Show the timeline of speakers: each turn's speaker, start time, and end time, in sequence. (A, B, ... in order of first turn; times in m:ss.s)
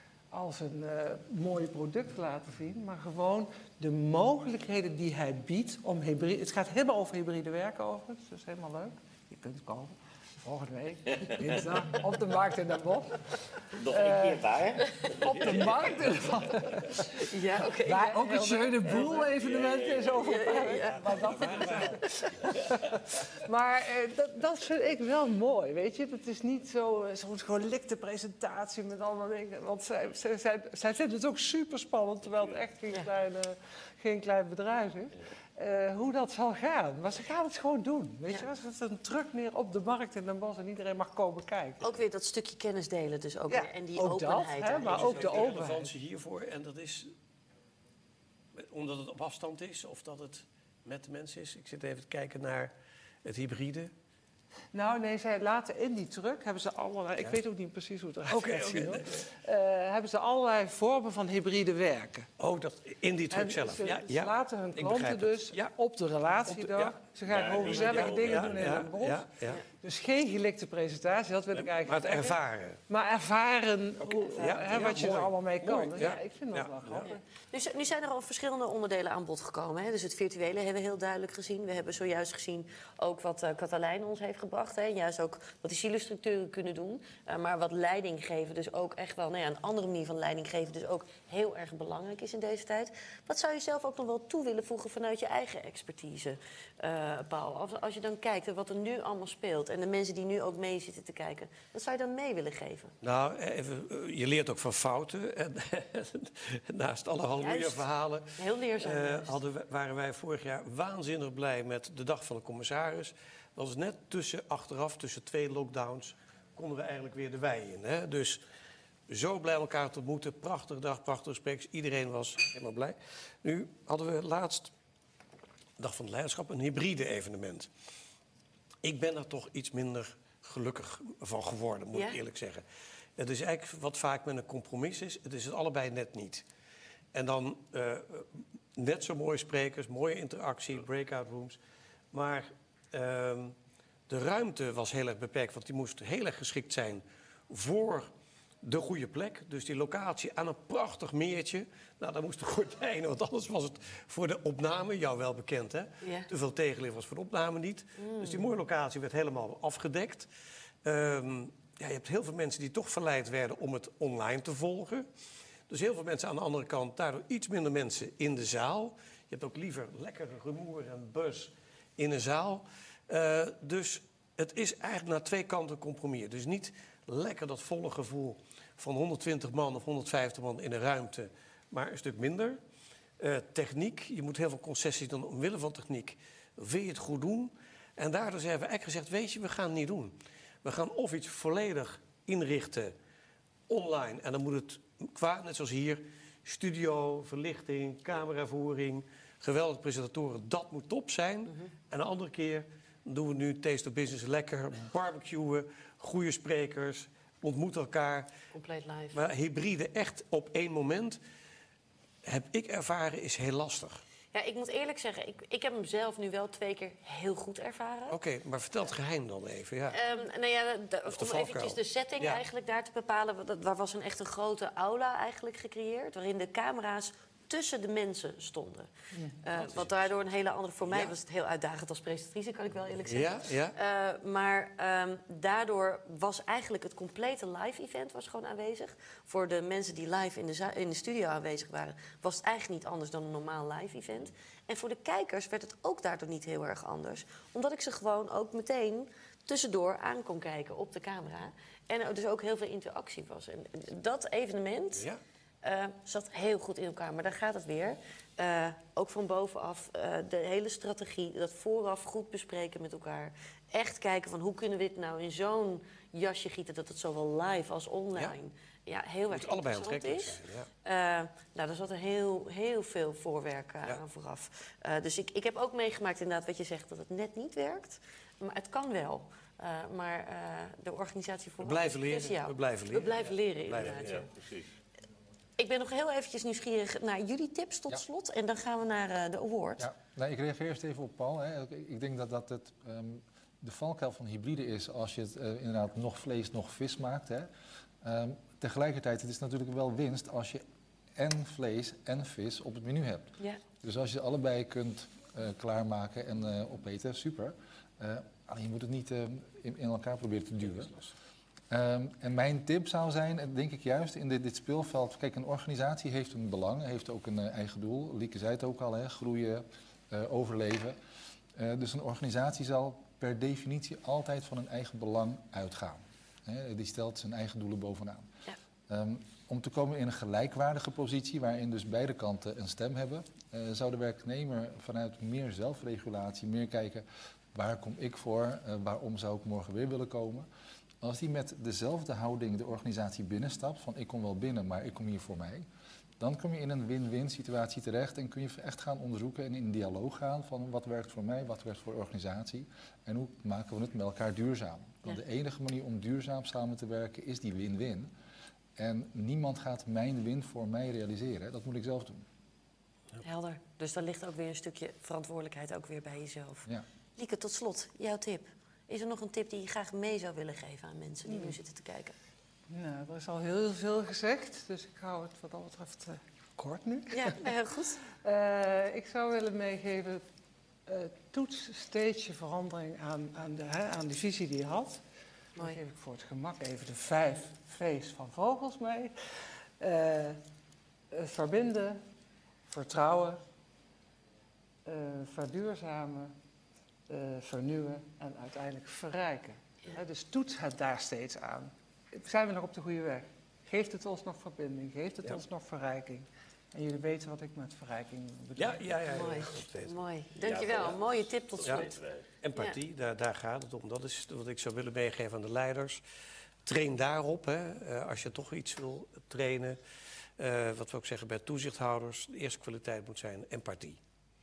0:00.3-0:41.9 A
0:11.2-0:11.8 B
0:13.8-0:16.4 B
0:17.2-0:19.1 C
0:19.1-0:20.5 B
0:20.2-0:21.1 C
0:21.0-0:22.0 D
0:21.8-0:22.3 C
0:41.8-0:45.4 C
0:43.5-0:45.9 A
0:44.8-0:47.1 D
0:48.5-0:52.7 D
0:53.2-0:53.9 D
0:54.7-1:02.3 A
0:58.3-0:59.2 D
1:02.4-1:05.7 D
1:03.3-1:12.4 A
1:06.4-1:09.6 D
1:07.2-1:08.9 B
1:11.5-1:12.8 D
1:12.9-1:17.2 A
1:14.1-1:17.1 D
1:17.0-1:42.9 C
1:43.0-1:58.4 D
1:47.4-1:47.8 C
1:48.4-1:49.4 C
1:59.1-2:04.7 D
2:05.8-2:07.7 D
2:08.8-2:12.6 D
2:13.2-2:16.4 D
2:17.1-2:21.6 D
2:22.1-2:23.5 D
2:24.1-2:28.1 D
2:28.6-2:40.3 D
2:36.0-2:36.3 C
2:38.0-2:38.4 C
2:40.8-2:45.0 D
2:45.7-3:02.6 D
3:03.2-3:12.9 D
3:13.7-3:28.3 D
3:28.5-3:29.2 C
3:29.1-3:31.2 D
3:32.2-3:34.0 D
3:34.3-3:38.2 C
3:38.1-3:40.0 D
3:39.9-4:15.0 C
3:41.1-3:42.4 D
3:49.1-3:49.4 A
3:49.5-3:50.0 D
3:50.9-3:51.1 D
3:53.1-3:53.7 D
4:15.6-4:44.3 C
4:29.3-4:30.7 D
4:41.6-4:44.2 D
4:43.9-4:44.7 B
4:45.6-4:49.9 C
4:49.8-4:57.5 E
4:58.0-5:00.6 E
5:01.2-5:11.0 E
5:10.8-5:11.1 D
5:11.7-5:21.0 E
5:21.5-5:28.3 E
5:28.9-5:40.5 E
5:41.0-5:45.6 E
5:46.2-5:58.1 E
5:58.8-6:02.2 E
6:03.2-6:12.1 C
6:11.3-6:11.6 A
6:12.7-6:17.5 A
6:17.1-6:18.0 C
6:18.0-6:20.2 A
6:20.9-6:25.0 A
6:25.6-6:30.4 A
6:31.1-6:32.0 A
6:32.6-6:33.4 A
6:34.8-6:36.3 A
6:37.1-6:48.9 A
6:48.6-6:49.9 D
6:49.1-6:51.9 C
6:50.4-6:52.3 B
6:52.4-6:56.0 D
6:56.6-6:59.8 D
7:00.4-7:04.0 D